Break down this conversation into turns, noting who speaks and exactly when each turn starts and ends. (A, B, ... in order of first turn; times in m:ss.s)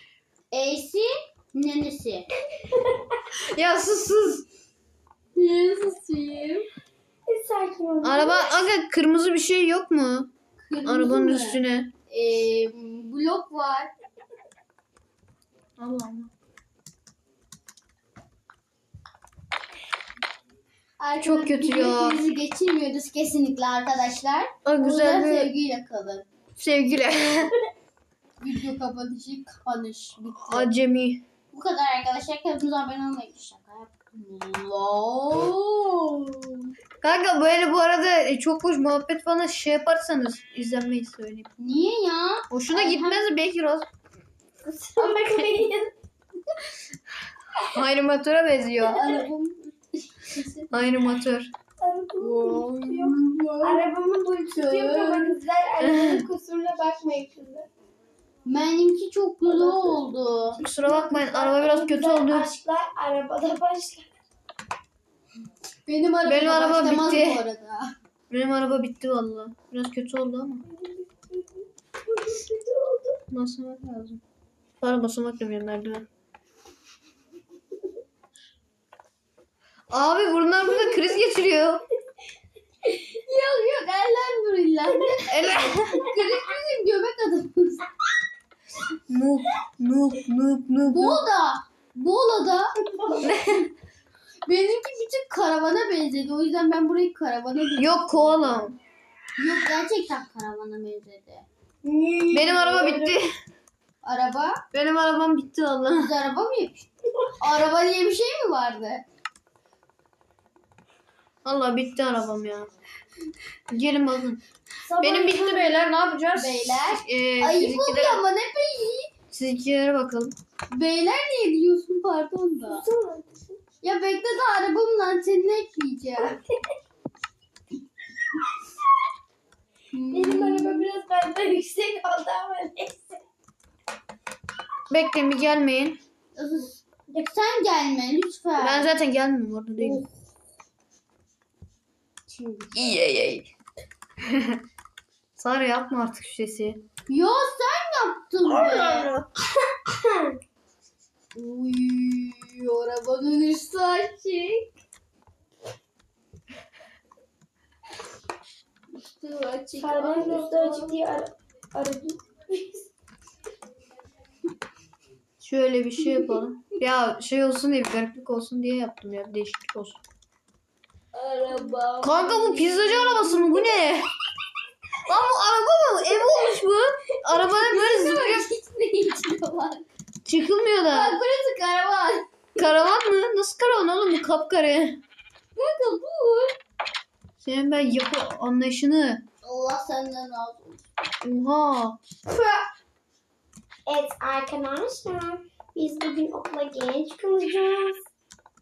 0:00.5-0:02.3 A
0:02.7-0:03.0 B
0:03.5-0:04.4 C
0:05.4-0:06.7 A
0:07.3-0:08.6 B
0:08.0-0:10.3 C
0:10.6-0:13.9 A
0:10.8-0:11.9 C
0:15.8-0:16.3 C
0:21.0-0:26.3 A
0:21.2-0:22.2 C
0:24.6-0:25.5 C
0:26.6-0:27.5 C
0:28.4-0:30.7 A
0:30.4-0:31.2 C
0:31.5-0:36.7 A
0:37.0-0:41.5 C
0:41.6-0:43.3 A
0:42.5-0:43.9 C
0:44.6-0:45.9 B
0:45.0-0:45.6 A
0:47.6-0:49.2 C
0:48.8-0:50.7 A
0:50.7-0:51.5 C
0:51.8-0:57.7 B
0:52.2-0:53.9 A
0:54.5-0:55.4 A
0:55.8-0:56.2 C
0:58.4-1:00.6 A
0:59.5-1:00.0 B
1:00.6-1:04.1 B
1:00.6-1:02.5 C
1:05.9-1:07.9 A
1:06.3-1:07.4 C
1:08.3-1:10.6 C
1:10.8-1:13.2 B
1:13.3-1:14.2 C
1:14.8-1:16.1 C
1:19.9-1:21.8 C
1:22.9-1:27.9 A
1:25.3-1:26.0 C
1:29.1-1:31.2 C
1:30.9-1:33.6 A
1:33.2-1:33.6 C
1:34.5-1:38.7 A
1:37.8-1:38.8 C
1:39.4-1:41.5 A
1:41.8-1:43.2 B
1:42.3-1:43.3 C
1:44.0-1:44.6 A
1:44.7-1:46.1 C
1:45.9-1:46.9 A
1:47.4-1:49.0 A
1:51.4-1:52.7 C
1:53.7-1:54.4 C
1:54.9-1:55.9 B
1:55.0-1:58.2 C
1:56.3-1:59.1 A
1:59.3-2:00.4 C
2:00.7-2:02.8 A
2:02.7-2:03.6 B
2:03.8-2:06.4 A
2:06.2-2:06.4 B
2:09.9-2:10.9 A
2:10.1-2:13.2 B
2:14.9-2:16.0 C
2:16.4-2:18.9 A
2:18.6-2:20.0 C
2:19.8-2:20.1 A
2:22.3-2:23.4 A
2:22.8-2:23.4 C
2:24.2-2:24.6 C
2:25.4-2:26.8 C
2:27.1-2:29.2 A
2:28.8-2:29.1 B
2:29.8-2:30.4 B
2:31.4-2:34.7 A
2:38.9-2:41.0 A
2:39.8-2:42.9 B
2:45.4-2:50.0 C
2:46.0-2:46.4 A
2:51.1-2:53.6 A
2:52.0-2:54.1 C
2:55.1-2:58.5 C
2:56.0-2:56.6 A
2:57.2-2:59.9 A
3:00.2-3:01.2 C
3:00.9-3:02.3 A
3:02.6-3:05.0 C
3:05.6-3:06.6 A
3:07.4-3:09.2 C
3:09.4-3:10.8 A
3:11.2-3:12.0 C
3:12.3-3:12.7 A
3:13.9-3:18.1 B